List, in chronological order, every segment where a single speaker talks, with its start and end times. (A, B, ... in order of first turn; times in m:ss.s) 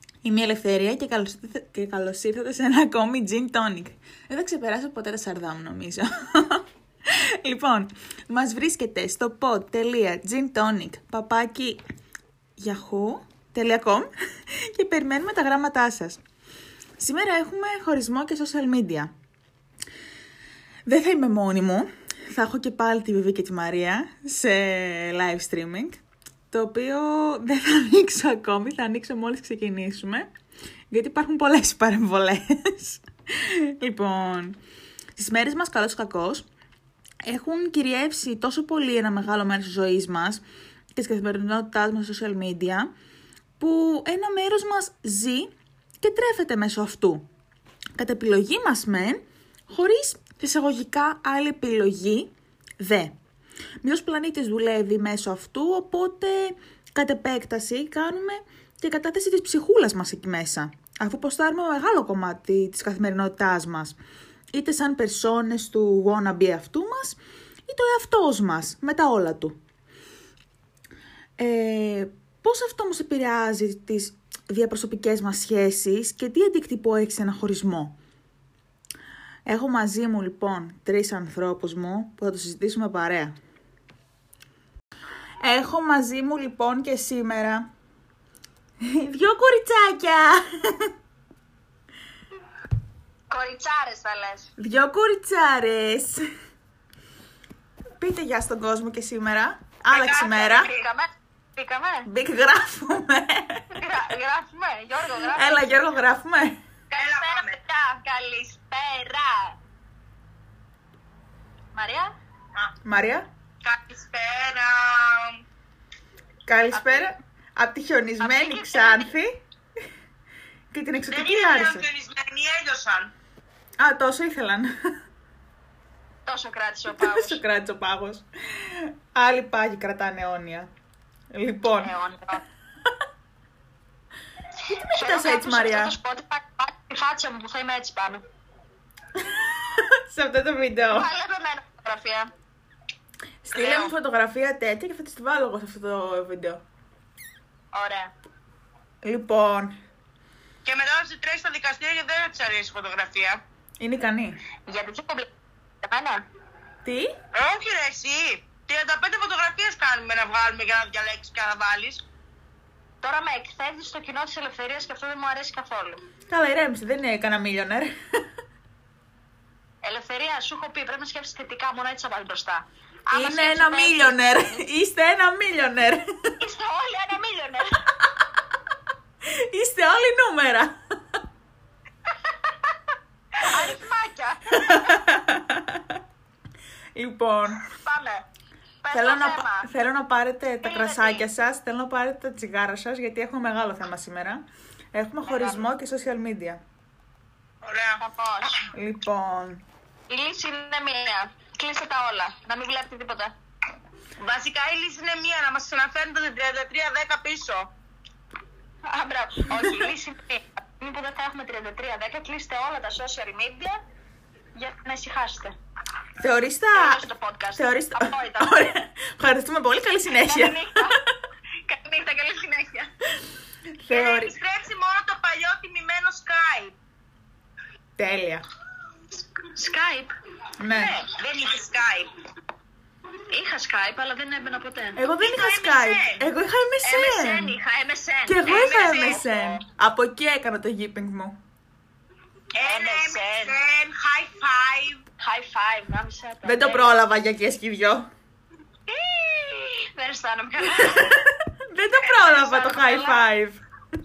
0:00.2-0:11.8 A
0:12.6-0:16.2 A
0:17.0-0:19.1 A
0:20.9-0:30.3 A
0:30.9-0:34.6 A
0:35.2-0:36.5 A
0:37.2-0:40.4 A
0:41.0-0:42.9 A
0:43.6-0:47.3 A
0:48.0-0:53.2 A
0:53.8-1:04.0 A
1:04.5-1:09.6 A
1:11.4-1:18.0 A
1:19.5-1:23.4 A
1:25.4-1:27.7 A
1:28.8-1:30.9 A
1:33.3-1:34.5 B
1:34.6-1:36.3 A
1:38.0-1:40.7 A
1:39.9-1:40.9 C
1:39.9-1:42.1 B
1:42.0-1:43.7 A
1:43.7-1:45.8 B
1:45.3-1:46.6 A
1:46.9-1:49.6 B
1:47.0-1:47.6 C
1:51.7-1:52.1 B
1:52.8-1:53.3 A
1:53.6-1:55.4 C
1:56.5-1:59.4 A
1:56.7-1:57.1 B
1:58.2-1:59.1 B
2:00.7-2:01.9 A
2:01.1-2:03.1 C
2:03.8-2:04.8 A
2:06.3-2:07.4 B
2:06.9-2:10.7 A
2:11.3-2:11.9 A
2:11.8-2:12.4 B
2:14.7-2:18.2 B
2:14.9-2:16.0 A
2:19.2-2:21.1 A
2:20.9-2:22.3 B
2:23.4-2:26.6 A
2:23.6-2:23.9 B
2:27.7-2:28.1 B
2:29.0-2:29.8 A
2:30.6-2:33.4 C
2:33.8-2:34.4 A
2:34.7-2:35.3 B
2:35.8-2:36.2 B
2:36.8-2:37.2 A
2:37.3-2:42.0 C
2:43.0-2:46.0 B
2:46.3-2:48.0 A
2:49.8-2:54.6 B
2:53.1-2:56.1 A
2:56.4-2:57.8 B
2:59.2-3:00.8 A
3:03.4-3:05.0 B
3:04.6-3:06.0 A
3:07.0-3:07.6 A
3:07.8-3:08.2 B
3:08.8-3:09.7 B
3:08.9-3:16.6 A
3:10.6-3:11.2 B
3:15.3-3:15.7 B
3:17.6-3:18.0 C
3:18.0-3:18.7 B
3:18.7-3:19.6 A
3:20.1-3:23.4 B
3:24.2-3:27.7 C
3:28.9-3:33.8 B
3:34.6-3:35.6 B
3:36.2-3:41.1 A
3:36.7-3:38.7 B
3:40.1-3:41.0 B
3:41.7-3:42.9 B
3:43.8-3:44.4 A
3:43.9-3:46.8 C
3:48.0-3:48.4 A
3:49.4-3:50.1 B
3:50.6-3:51.0 A
3:50.7-3:51.1 B
3:51.0-3:52.1 C
3:53.3-3:55.0 B
3:55.0-3:57.6 A
3:55.2-3:56.3 C
3:56.8-3:59.5 B
3:58.3-4:01.4 A
3:58.5-3:59.4 C
4:02.5-4:05.0 C
4:02.6-4:03.6 B
4:05.2-4:07.0 B
4:06.4-4:08.1 A
4:08.9-4:11.3 B
4:10.8-4:13.6 A
4:12.0-4:13.2 B